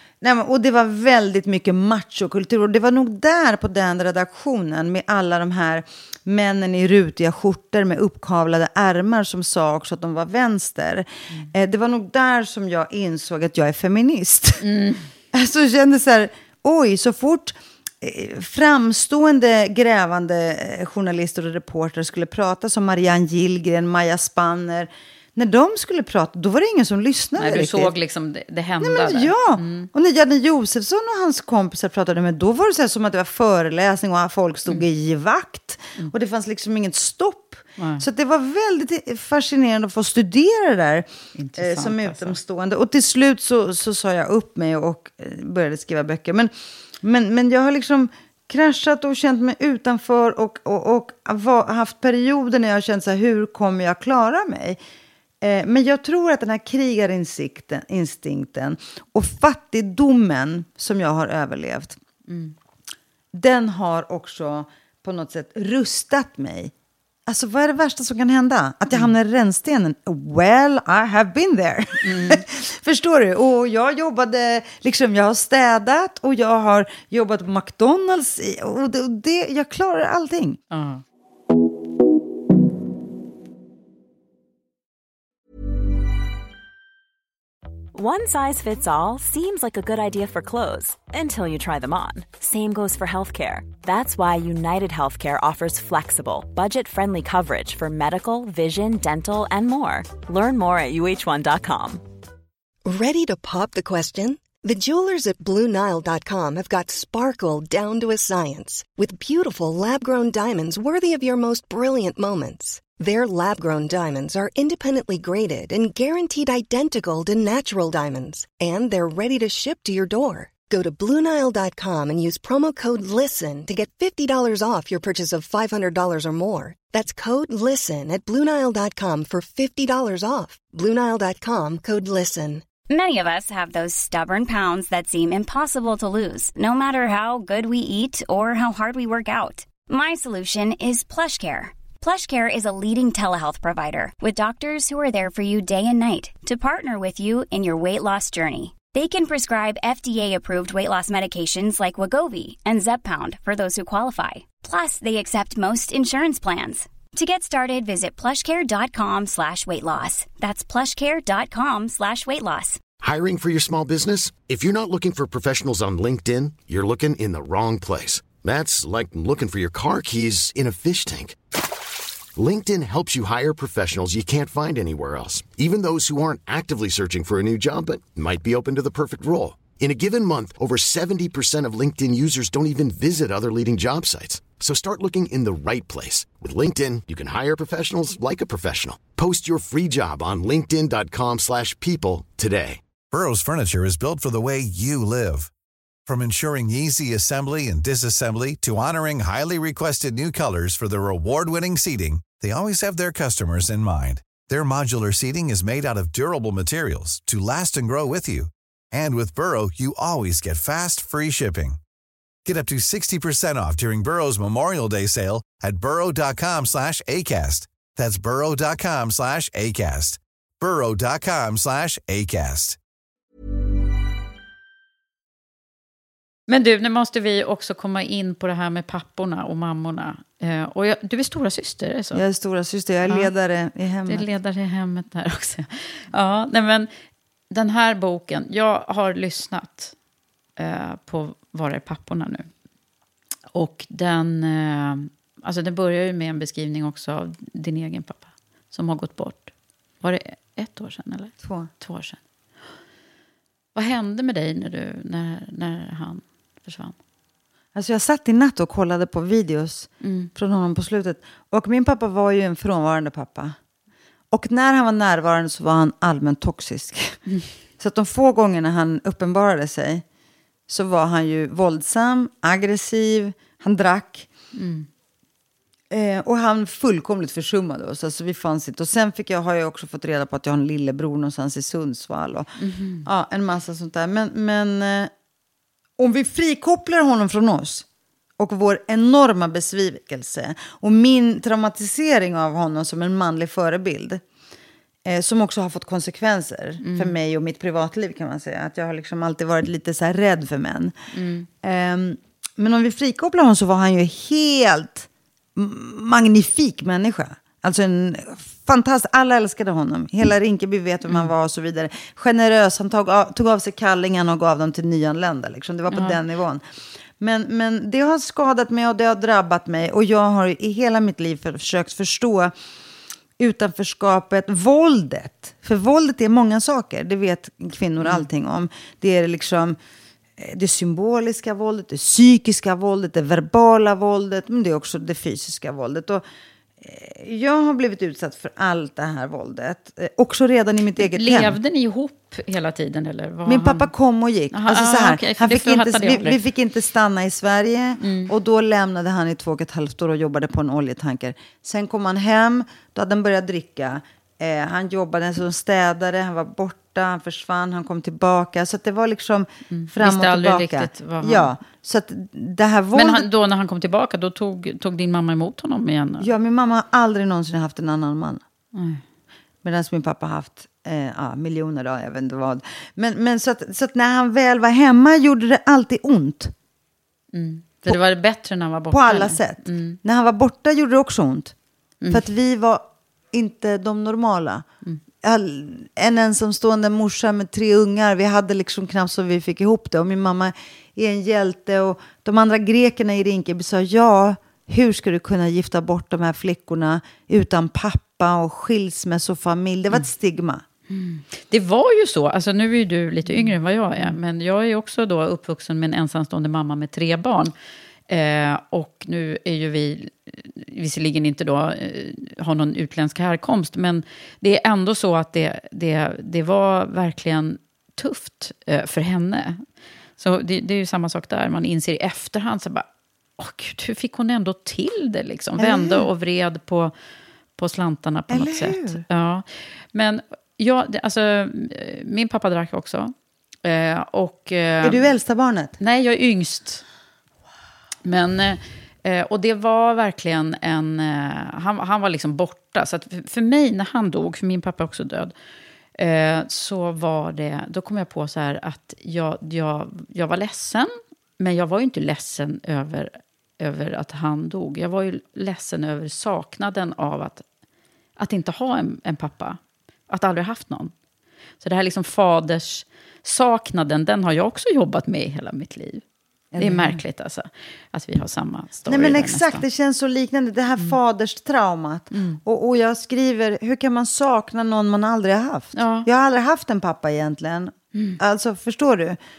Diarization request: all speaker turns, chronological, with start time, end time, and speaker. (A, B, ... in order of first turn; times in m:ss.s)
0:00.2-0:14.6 A
0:14.6-0:15.1 B
0:15.3-0:27.9 A
0:27.4-0:29.9 B
0:28.8-0:46.5 A
0:37.8-0:38.0 B
0:41.4-0:42.4 B
0:47.0-0:54.8 A
0:55.4-1:02.0 A
1:02.3-1:02.6 B
1:03.3-1:06.7 A
1:07.3-1:20.6 A
1:12.0-1:12.4 B
1:20.7-1:21.0 B
1:27.9-1:42.0 C
1:42.8-2:12.6 D
2:12.9-2:42.8 E
2:43.0-2:51.4 F
2:52.4-3:12.8 F
3:13.1-3:15.5 G
3:16.1-3:31.8 G
3:32.4-3:42.8 G
3:46.5-3:52.2 B
3:52.1-3:54.3 A
3:53.0-3:53.3 B
3:54.1-3:56.9 B
3:57.5-4:00.0 B
4:00.6-4:02.5 B
4:03.5-4:12.2 B
4:11.4-4:11.7 A
4:13.7-4:17.0 B
4:17.7-4:23.6 A
4:20.0-4:20.3 B
4:24.3-4:27.2 A
4:27.8-4:30.0 A
4:30.7-4:34.3 A
4:34.5-4:34.9 B
4:35.9-4:45.1 A
4:42.6-4:43.0 B
4:46.0-4:47.9 A
4:48.4-4:54.2 A
4:55.0-5:01.0 A
4:56.8-4:57.1 B
5:01.1-5:01.5 B
5:01.6-5:16.6 A
5:15.9-5:16.2 B
5:17.2-5:22.5 A
5:23.4-5:29.8 A
5:30.4-5:36.2 A
5:36.8-5:41.6 A
5:41.0-5:43.9 B
5:43.4-6:03.3 A
5:44.5-5:46.4 B
5:48.0-5:48.3 B
5:59.7-6:01.5 B
6:02.9-6:06.3 B
6:06.2-6:08.4 A
6:08.7-6:09.0 B
6:09.6-6:16.5 A
6:17.3-6:20.0 B
6:18.9-6:21.6 A
6:22.1-6:24.6 A
6:25.2-6:40.6 A
6:40.9-6:47.5 B
6:43.3-6:44.2 A
6:48.1-6:59.6 B
7:00.2-7:02.9 B
7:03.4-7:06.9 B
7:05.6-7:06.1 A
7:07.6-7:13.1 B
7:08.3-7:09.0 A
7:13.6-7:15.0 B
7:14.8-7:15.8 A
7:15.8-7:16.8 B
7:18.0-7:25.3 B
7:26.0-7:37.4 B
7:38.2-7:40.9 B
7:41.6-7:46.0 B
7:46.5-7:47.0 A
7:46.6-7:49.6 B
7:48.9-7:59.2 A
7:52.1-7:52.4 B
7:55.7-7:56.1 B